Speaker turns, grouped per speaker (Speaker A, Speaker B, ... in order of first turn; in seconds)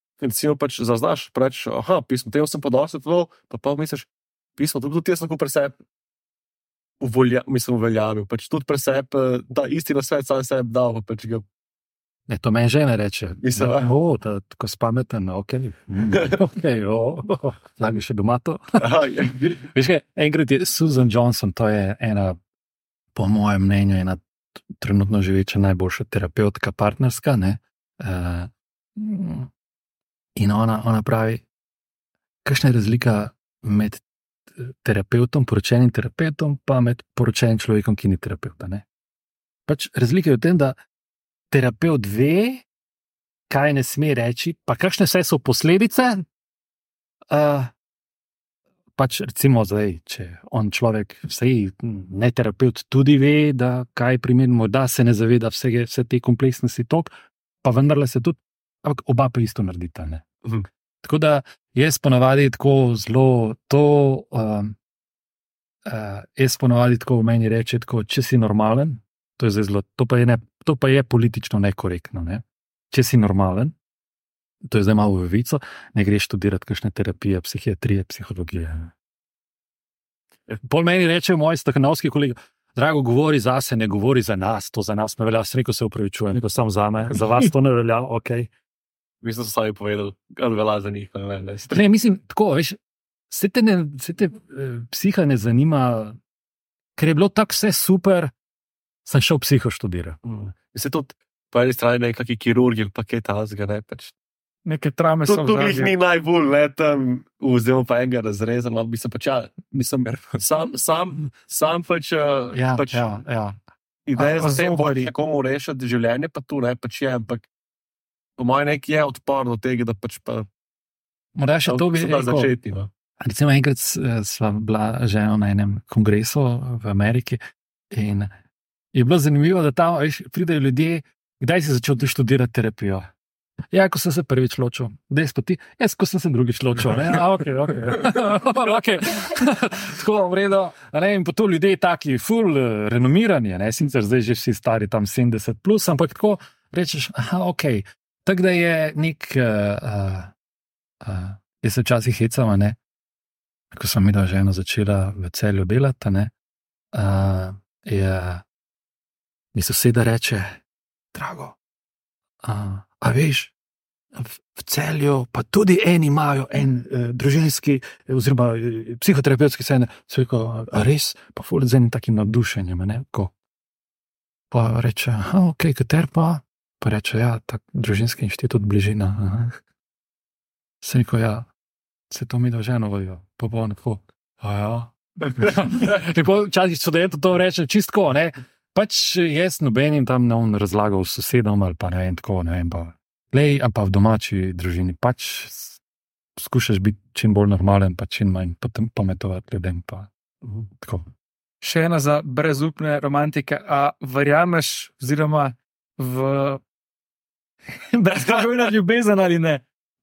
Speaker A: 0.2-5.8, 7.0-11.4, 13.4-13.9, 18.8-19.6, 89.2-91.8, 100.2-104.1, 105.3-113.1, 114.1-117.5, 118.4-120.5, 121.7-122.9
Speaker B: 12.3-18.8, 19.6-22.4, 23.1-24.2, 24.8-29.5, 30.4-31.4, 32.4-34.0, 34.6-38.9, 39.7-40.8, 41.5-42.6, 43.5-46.2, 47.3-47.7, 49.0-60.3, 61.0-64.8, 65.9-73.7, 74.6-78.9, 80.6-88.5, 91.7-92.8, 93.3-96.2, 97.0-98.3, 99.1-100.2, 112.5-113.6, 121.3-122.6, 123.2-127.4, 127.9-128.3, 128.9-133.1, 133.7-150.3, 151.0-152.8, 153.7-156.3, 156.9-158.4, 159.5-160.6, 161.1-161.6, 162.4-163.5, 164.2-173.3, 174.5-179.6, 180.8-181.5, 182.1-195.8, 196.4-201.1
Speaker C: 104.7-105.9, 114.2-115.1, 201.6-206.6, 207.9-209.6